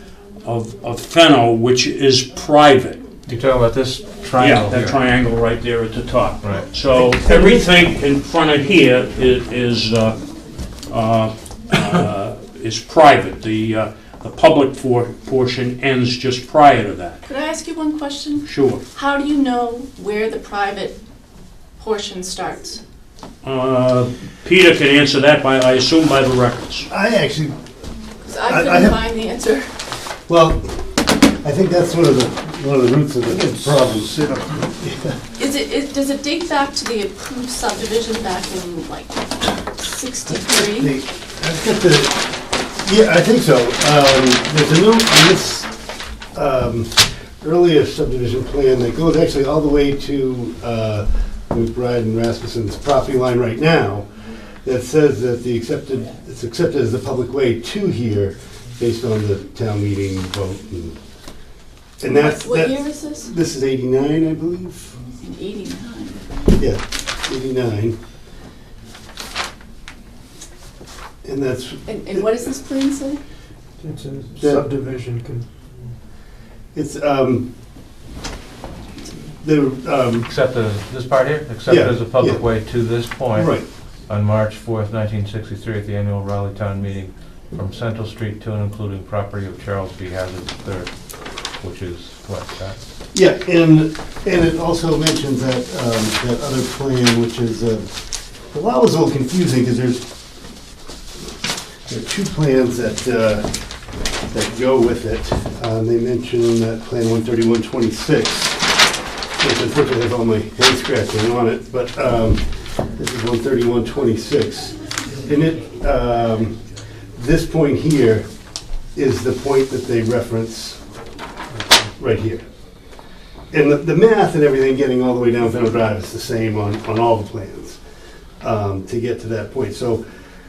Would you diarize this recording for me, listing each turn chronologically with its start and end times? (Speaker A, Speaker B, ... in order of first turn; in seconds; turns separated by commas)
Speaker A: 0.4-3.0, Speaker B: 3.3-5.0, Speaker A: 4.4-10.2, Speaker B: 6.4-6.7, Speaker C: 7.0-7.6, Speaker A: 10.9-17.2, Speaker D: 17.2-21.0, Speaker A: 18.4-18.8, Speaker D: 21.8-22.8, Speaker A: 23.4-26.9, Speaker C: 26.9-27.6, Speaker D: 28.2-29.6, Speaker C: 28.4-29.0, Speaker C: 30.3-30.8, Speaker C: 31.4-34.2, Speaker E: 33.2-34.7, Speaker C: 34.8-35.2, Speaker D: 35.4-40.9, Speaker C: 40.3-42.2, Speaker C: 42.8-45.7, Speaker C: 46.3-54.0, Speaker C: 54.6-61.0, Speaker C: 62.0-65.0, Speaker D: 62.0-63.3, Speaker D: 65.2-66.3, Speaker C: 66.6-68.0, Speaker C: 71.2-72.3, Speaker D: 71.9-73.2, Speaker E: 73.8-75.4, Speaker C: 74.4-74.7, Speaker C: 76.7-77.5, Speaker C: 79.4-80.3, Speaker B: 80.2-90.9, Speaker C: 81.7-82.4, Speaker C: 83.3-83.6, Speaker B: 91.5-92.8, Speaker C: 93.1-97.9, Speaker C: 98.5-100.0, Speaker C: 101.9-103.5, Speaker C: 104.3-108.6, Speaker C: 109.4-116.6, Speaker C: 117.2-118.2, Speaker C: 118.9-120.8, Speaker C: 122.0-122.4, Speaker C: 123.5-127.8, Speaker C: 128.4-130.0